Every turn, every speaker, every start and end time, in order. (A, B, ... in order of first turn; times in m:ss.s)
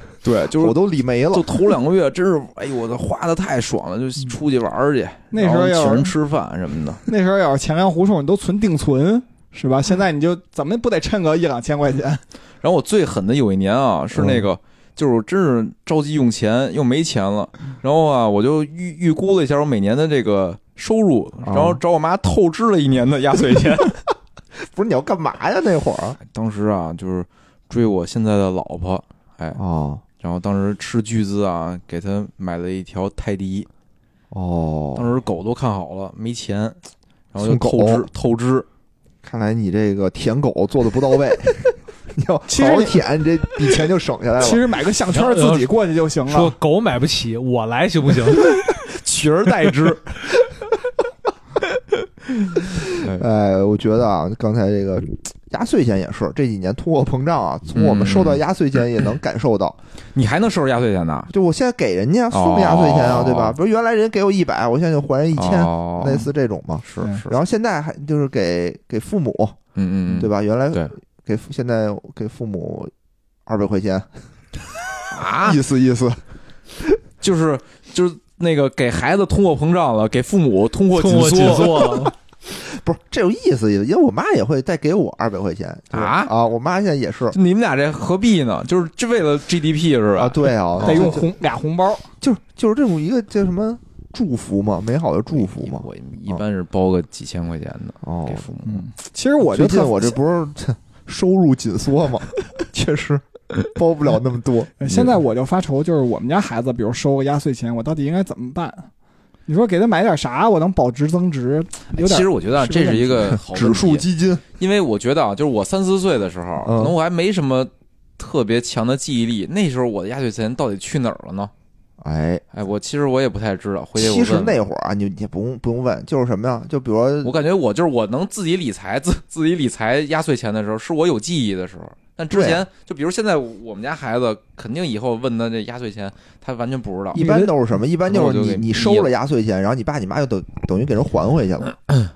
0:00.2-0:00.8 A
0:00.5-0:01.6 B
0:01.3-0:07.0 A
0:05.3-0:06.1 C
0:07.0-0:12.2 C
0:12.6-0:24.0 A
0:14.1-0:14.5 B
0:21.4-0:21.8 B
0:24.6-0:26.2 B
0:26.3-0:29.6 A
0:29.5-0:30.0 B
0:30.2-0:33.7 A
0:34.3-0:35.1 B
0:35.0-0:36.8 A
0:37.3-0:38.7 A
0:37.4-0:38.1 B
0:39.2-0:44.6 B
0:42.5-0:43.0 C
0:44.4-0:46.5 C
0:45.1-0:45.7 D
0:46.2-0:48.6 D
0:48.6-0:50.3 A
0:52.6-0:53.2 A
0:52.6-0:59.8 B
0:57.7-0:58.4 A
1:00.1-1:01.3 A
1:01.3-1:09.6 B
1:02.3-1:03.6 A
1:05.4-1:06.3 A
1:06.8-1:07.3 A
1:09.8-1:10.9 A
1:10.1-1:12.9 B
1:13.4-1:14.1 B
1:15.1-1:15.6 A
1:15.4-1:16.2 B
1:17.2-1:22.1 A
1:20.9-1:22.1 D
1:22.5-1:27.4 B
1:25.9-1:26.3 A
1:27.3-1:31.2 A
1:30.2-1:31.3 B
1:30.8-1:32.1 C
1:32.2-1:36.4 B
1:35.5-1:38.8 A
1:38.0-1:38.5 B
1:38.6-1:40.2 C
1:39.4-1:45.1 B
1:44.8-1:48.9 C
1:49.5-1:53.4 C
1:51.9-1:54.1 A
1:53.4-1:54.4 B
1:54.6-2:01.5 A
1:56.6-1:56.9 B
2:02.0-2:02.4 B
2:02.5-2:04.6 A
2:04.0-2:07.3 B
2:07.2-2:17.3 A
2:12.3-2:12.6 B
2:17.1-2:21.8 B
2:17.2-2:17.5 D
2:18.1-2:19.1 A